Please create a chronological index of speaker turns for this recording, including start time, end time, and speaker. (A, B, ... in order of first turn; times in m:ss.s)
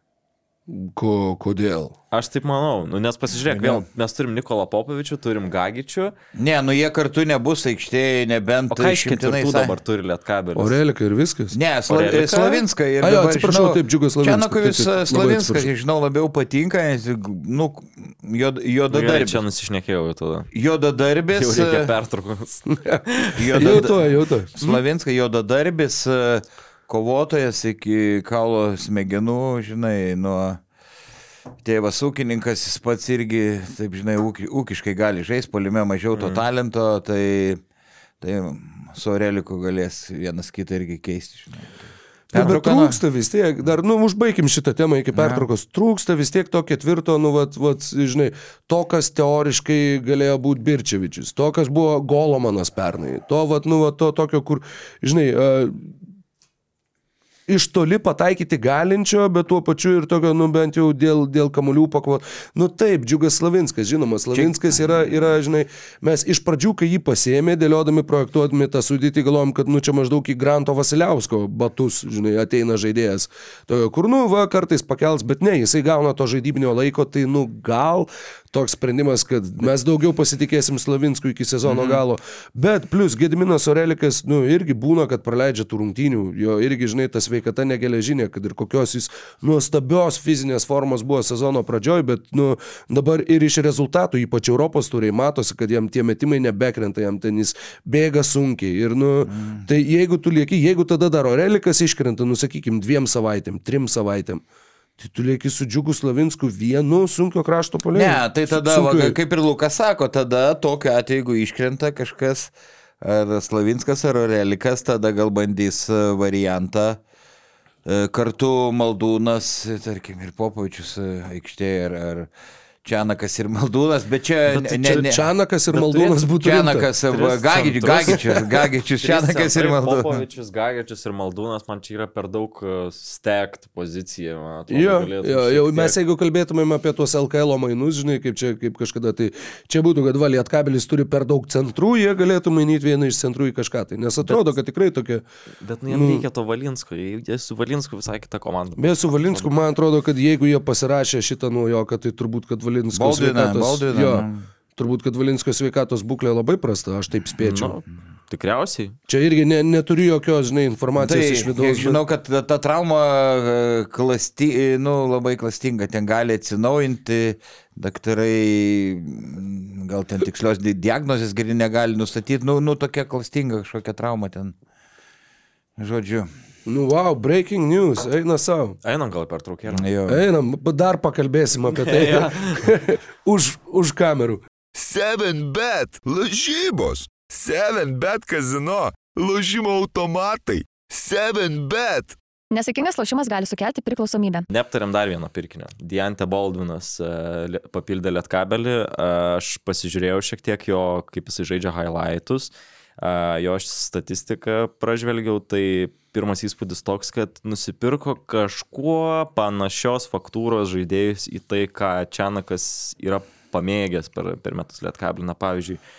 0:00.7-0:02.0 A
0:02.1-0:06.1 B
0:03.5-0:03.8 C
0:06.4-0:09.7 C
0:08.7-0:10.8 B
0:10.6-0:11.6 A
0:11.5-0:19.4 C
0:11.9-0:12.6 B
0:13.0-0:15.7 A
0:18.9-0:20.5 B
0:20.5-0:21.9 C
0:21.3-0:24.0 B
0:22.7-0:24.5 A
0:23.4-0:23.9 C
0:24.5-0:30.6 C
0:31.6-0:37.6 C
0:36.1-0:36.4 B
0:38.2-0:43.0 C
0:42.3-0:55.9 A
0:45.1-0:45.5 C
0:57.5-1:44.4 A
1:04.3-1:05.0 C
1:21.7-1:22.0 B
1:39.3-1:39.6 C
1:45.0-1:49.2 A
1:47.9-1:57.0 C
1:57.8-2:02.3 C
2:02.8-2:05.2 C
2:04.5-2:05.2 B
2:05.1-2:06.9 A
2:05.7-2:06.2 B
2:06.3-2:10.2 C
2:07.1-2:16.0 B
2:14.7-2:25.2 A
2:24.2-2:24.5 B
2:25.6-2:29.5 B
2:25.9-2:26.2 A
2:28.8-2:37.8 A
2:32.9-2:34.4 C
2:37.4-2:38.9 B
2:39.1-2:42.0 A
2:41.0-2:54.5 C
2:55.8-2:56.3 C
2:56.6-2:58.8 A
2:58.8-2:59.8 B
2:59.7-3:00.2 C
3:00.1-3:04.4 A
3:01.6-3:02.6 B
3:04.7-3:12.2 D
3:12.5-3:14.5 E
3:14.5-3:35.8 B